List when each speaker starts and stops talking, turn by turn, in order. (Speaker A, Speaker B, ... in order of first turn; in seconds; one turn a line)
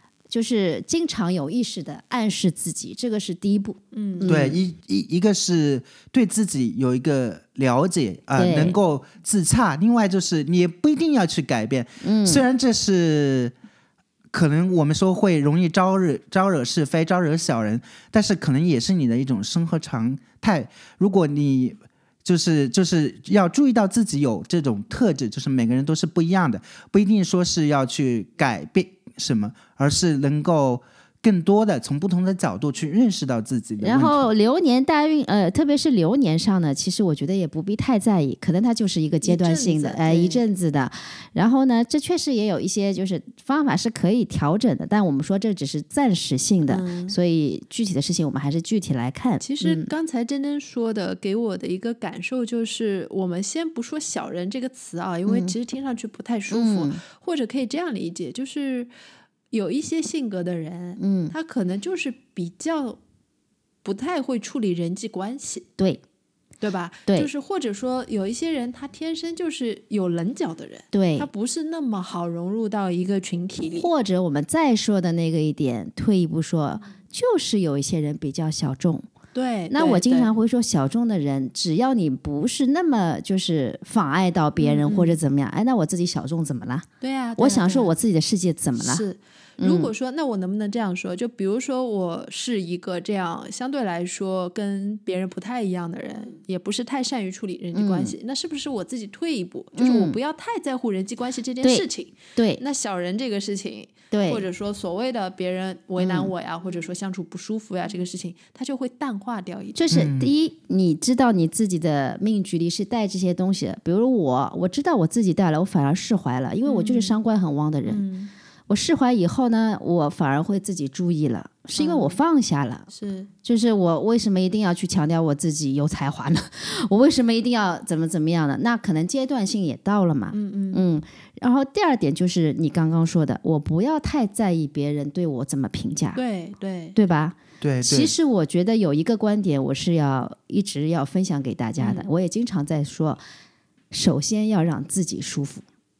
Speaker A: 0.3-4.6
Speaker B: 3.9-4.4
Speaker C: 4.3-13.5
Speaker A: 8.4-8.8
Speaker A: 12.0-12.4
Speaker C: 14.3-34.3
Speaker A: 33.8-49.9
Speaker B: 39.2-40.4
Speaker B: 46.7-47.1
Speaker B: 49.4-58.9
Speaker A: 55.3-55.5
Speaker A: 56.5-57.0
Speaker B: 59.5-63.0
Speaker A: 61.0-61.3
Speaker B: 63.8-65.7
Speaker B: 66.6-73.9
Speaker A: 70.9-71.3
Speaker A: 73.8-79.1
Speaker B: 79.3-80.3
Speaker A: 79.7-86.9
Speaker B: 84.6-85.2
Speaker B: 87.0-87.9
Speaker A: 87.4-89.0
Speaker B: 88.8-109.9
Speaker A: 89.6-89.9
Speaker A: 97.7-98.2
Speaker A: 99.8-100.2
Speaker A: 101.6-102.6
Speaker A: 104.1-104.4
Speaker A: 106.0-106.3
Speaker A: 109.8-118.0
Speaker C: 109.9-110.3
Speaker B: 116.7-117.2
Speaker B: 117.9-118.3
Speaker A: 118.7-122.9
Speaker B: 121.8-122.2
Speaker B: 122.9-123.3
Speaker A: 123.4-136.2
Speaker B: 130.3-130.9
Speaker B: 136.2-137.0
Speaker A: 137.0-143.2
Speaker C: 137.6-138.1
Speaker B: 141.8-142.1
Speaker A: 143.9-145.7